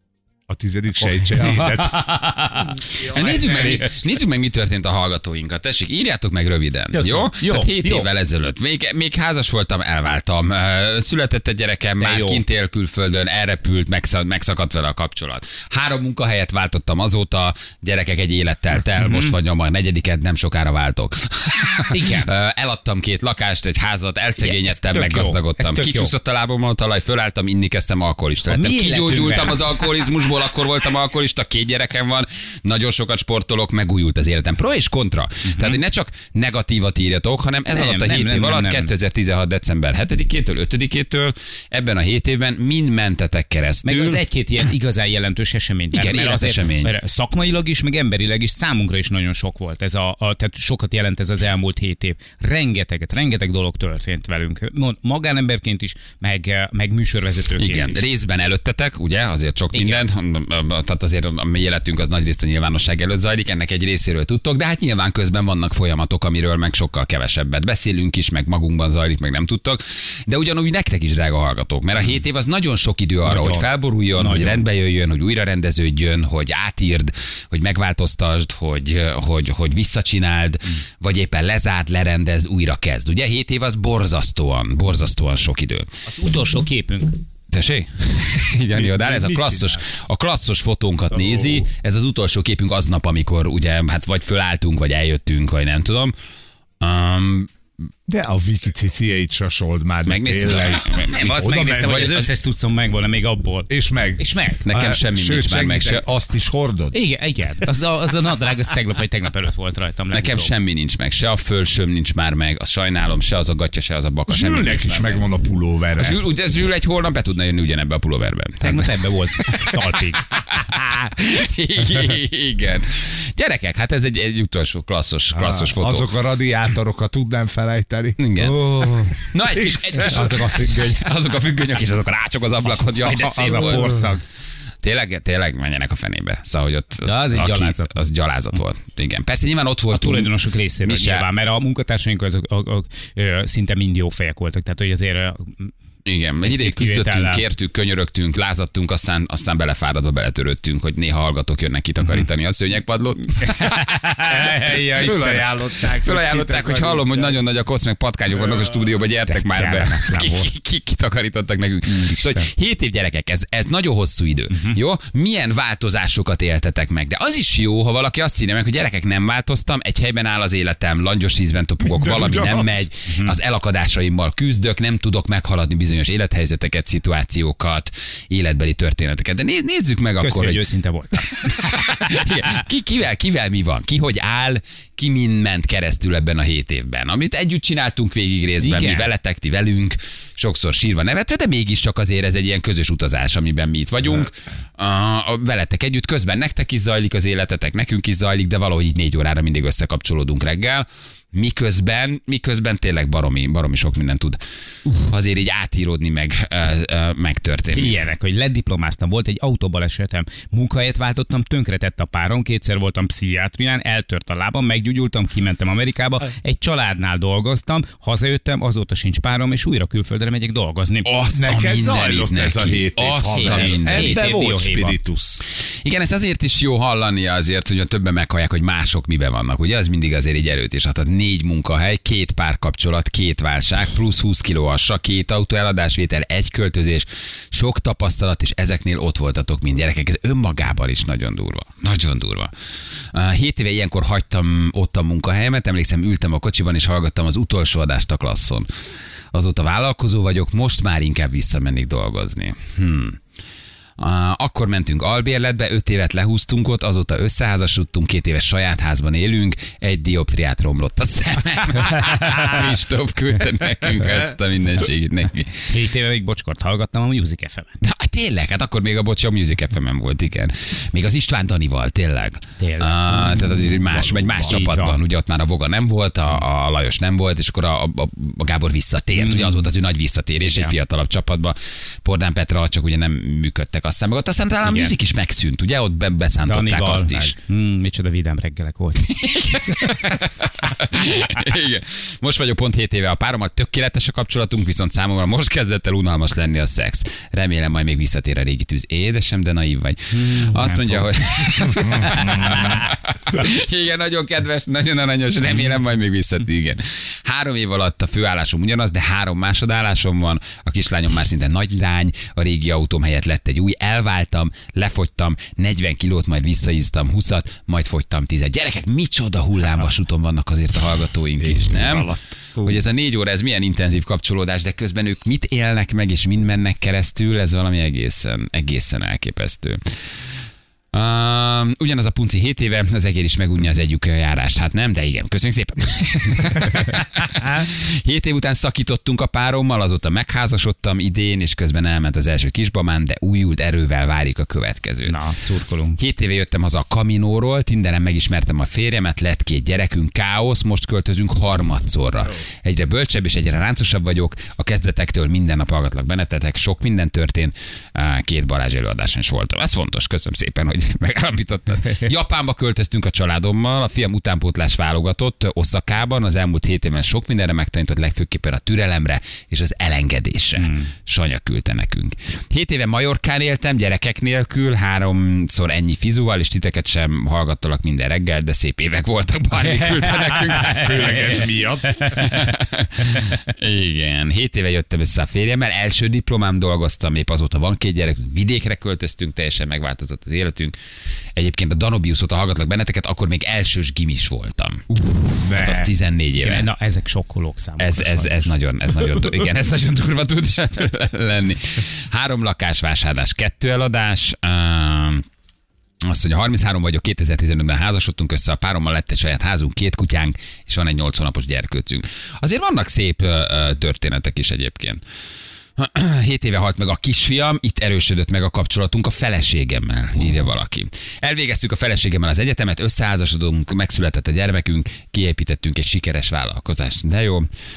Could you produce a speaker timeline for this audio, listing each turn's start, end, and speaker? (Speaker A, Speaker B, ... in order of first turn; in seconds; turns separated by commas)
Speaker A: 0.5-2.0, Speaker B: 1.0-2.9, Speaker C: 3.0-44.2, Speaker A: 3.0-3.8, Speaker B: 6.9-8.1, Speaker B: 12.0-12.4, Speaker B: 19.0-19.3, Speaker B: 21.9-22.3, Speaker B: 24.4-26.1, Speaker B: 28.4-29.7, Speaker B: 35.5-35.8, Speaker B: 37.7-38.9, Speaker B: 43.8-58.0, Speaker C: 45.9-46.9, Speaker C: 57.6-85.9, Speaker B: 59.7-60.0, Speaker B: 73.2-74.6, Speaker B: 86.0-87.2, Speaker C: 87.5-96.1, Speaker A: 88.7-89.8, Speaker C: 96.8-97.5, Speaker A: 98.1-102.1, Speaker C: 100.0-102.2, Speaker B: 101.1-104.6, Speaker A: 103.7-107.0, Speaker C: 104.6-106.0, Speaker B: 106.9-110.5, Speaker C: 110.1-115.2, Speaker A: 114.3-116.2, Speaker C: 116.0-119.7, Speaker B: 118.6-120.2, Speaker C: 120.3-126.1, Speaker A: 125.3-128.2, Speaker C: 128.2-128.6, Speaker B: 128.4-129.2, Speaker C: 129.3-134.0, Speaker A: 129.8-130.6, Speaker B: 129.9-130.8, Speaker B: 132.8-134.2, Speaker C: 134.8-141.3, Speaker B: 137.0-138.1, Speaker B: 139.9-145.7, Speaker C: 146.1-153.9, Speaker B: 146.4-147.4, Speaker B: 152.0-152.3, Speaker B: 153.4-155.4, Speaker A: 154.5-157.4, Speaker C: 155.1-180.6, Speaker B: 159.2-160.5, Speaker B: 161.9-162.4, Speaker B: 164.5-164.8, Speaker A: 171.8-172.9, Speaker B: 173.1-173.3, Speaker B: 180.2-181.8, Speaker C: 181.2-208.0, Speaker B: 188.6-189.1, Speaker B: 207.7-221.1, Speaker C: 221.0-224.2, Speaker A: 221.3-225.4, Speaker B: 223.3-225.0, Speaker C: 225.8-242.5, Speaker C: 243.1-248.7, Speaker C: 249.3-253.2, Speaker C: 254.0-265.6, Speaker B: 265.7-267.7, Speaker C: 267.8-287.4, Speaker B: 272.6-273.8, Speaker A: 273.8-274.6, Speaker B: 274.4-275.0, Speaker B: 279.1-279.7, Speaker B: 280.4-280.7, Speaker B: 284.6-284.9, Speaker B: 286.4-289.1, Speaker C: 289.0-329.8, Speaker B: 300.1-301.1, Speaker B: 302.0-302.8, Speaker A: 321.4-322.8, Speaker C: 330.9-345.1, Speaker B: 345.0-346.0, Speaker C: 346.0-381.5, Speaker B: 370.6-370.9, Speaker A: 380.4-382.3, Speaker B: 380.6-380.9, Speaker C: 382.1-390.7, Speaker C: 391.4-396.7, Speaker A: 395.4-395.9, Speaker B: 396.4-398.5, Speaker C: 397.8-405.2, Speaker C: 406.0-415.0, Speaker C: 415.8-427.5